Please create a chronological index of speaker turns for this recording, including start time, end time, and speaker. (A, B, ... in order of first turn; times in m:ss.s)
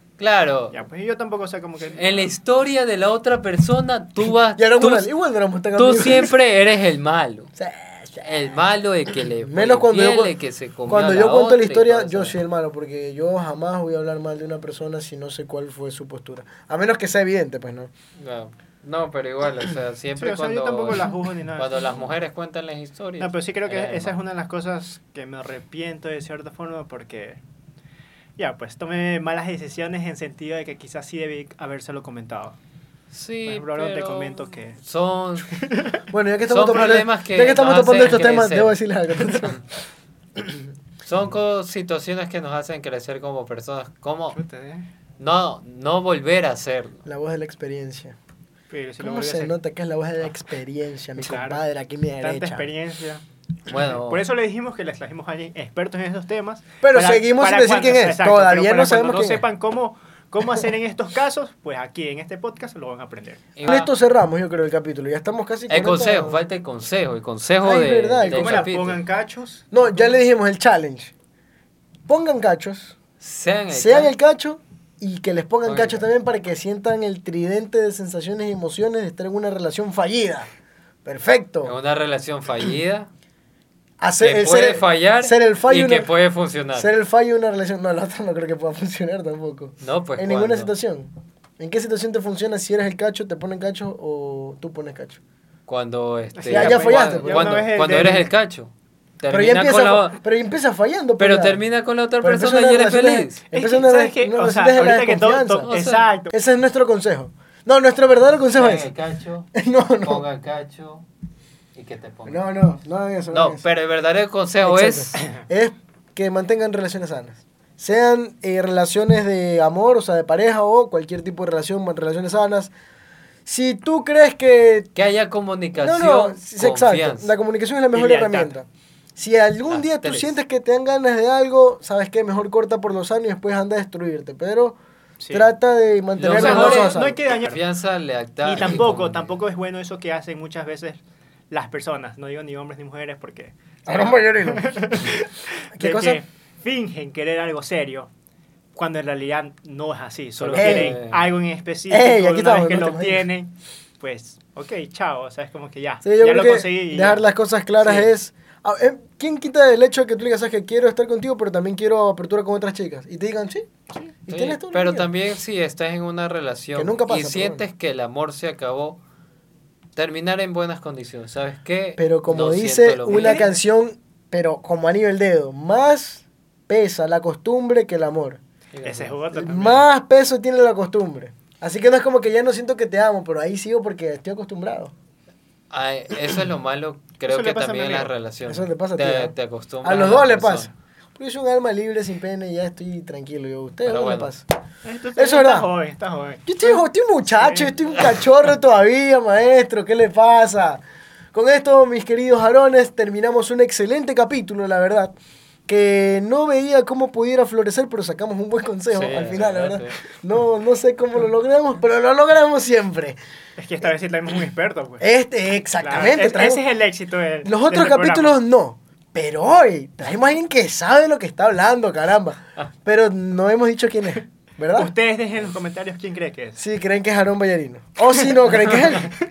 0:00.2-0:00.8 A
0:00.7-0:02.3 B
0:02.0-0:05.1 A
0:04.6-0:06.4 C
0:05.8-0:07.5 A
0:07.6-0:08.3 C
0:08.2-0:12.4 A
0:09.2-0:10.4 C
0:10.9-0:17.9 C
0:18.2-0:24.2 A
0:20.2-0:22.0 B
0:23.2-0:27.4 B
0:28.4-0:32.6 B
0:33.1-0:35.5 A
0:33.5-0:34.8 B
0:35.5-0:36.0 B
0:36.1-0:39.6 C
0:36.5-0:38.8 A
0:41.0-0:44.4 A
0:44.3-0:44.9 B
0:45.2-0:47.0 A
0:47.1-0:48.2 C
0:48.7-0:49.6 B
0:49.0-0:52.7 C
0:51.2-0:51.6 B
0:52.2-1:03.5 B
0:53.7-0:54.2 A
0:56.8-0:59.5 C
1:03.6-1:03.9 A
1:03.6-1:06.4 C
1:05.7-1:09.0 A
1:07.6-1:08.7 C
1:08.2-1:10.2 B
1:09.7-1:11.1 C
1:12.1-1:13.0 C
1:13.2-1:14.1 A
1:13.7-1:20.5 C
1:15.6-1:16.0 A
1:21.0-1:21.7 C
1:21.6-1:23.1 A
1:24.0-1:26.1 C
1:24.2-1:26.9 A
1:26.8-1:35.2 C
1:29.8-1:30.8 A
1:35.7-1:40.2 A
1:36.4-1:38.3 B
1:36.5-1:37.7 C
1:39.3-1:41.6 C
1:41.2-1:43.4 A
1:42.2-1:45.7 C
1:43.5-1:46.3 B
1:45.6-1:46.1 A
1:46.3-1:48.9 C
1:48.6-1:51.0 A
1:49.5-1:50.2 C
1:51.8-1:52.4 A
1:52.3-1:53.6 C
1:53.3-1:55.2 A
1:54.6-2:02.7 C
2:03.5-2:04.9 C
2:05.0-2:07.3 A
2:05.8-2:14.8 C
2:07.9-2:08.5 B
2:09.7-2:10.3 A
2:15.2-2:15.5 B
2:15.3-2:17.2 C
2:16.2-2:19.4 A
2:16.3-2:17.6 B
2:18.5-2:28.1 B
2:23.9-2:24.7 C
2:25.8-2:26.2 C
2:28.8-2:37.3 B
2:30.4-2:31.2 A
2:30.5-2:31.0 C
2:31.9-2:33.3 C
2:36.0-2:43.7 C
2:37.8-2:38.1 B
2:44.3-2:45.1 C
2:44.3-2:49.0 A
2:46.8-2:47.6 C
2:50.0-2:53.5 A
2:52.0-2:58.4 C
2:53.1-2:53.5 B
2:58.7-2:59.2 A
2:58.8-2:59.9 B
2:59.3-3:04.9 C
3:05.7-3:10.7 A
3:07.3-3:08.1 B
3:08.5-3:14.4 C
3:13.9-3:14.3 A
3:14.8-3:16.6 B
3:15.2-3:15.7 C
3:16.5-3:20.8 C
3:17.3-3:17.8 B
3:21.3-3:25.2 C
3:25.7-3:33.2 C
3:28.9-3:30.0 A
3:33.6-3:35.0 B
3:35.0-3:36.6 C
3:35.8-3:38.4 B
3:37.4-3:44.9 C
3:44.8-3:46.6 B
3:46.6-3:49.2 C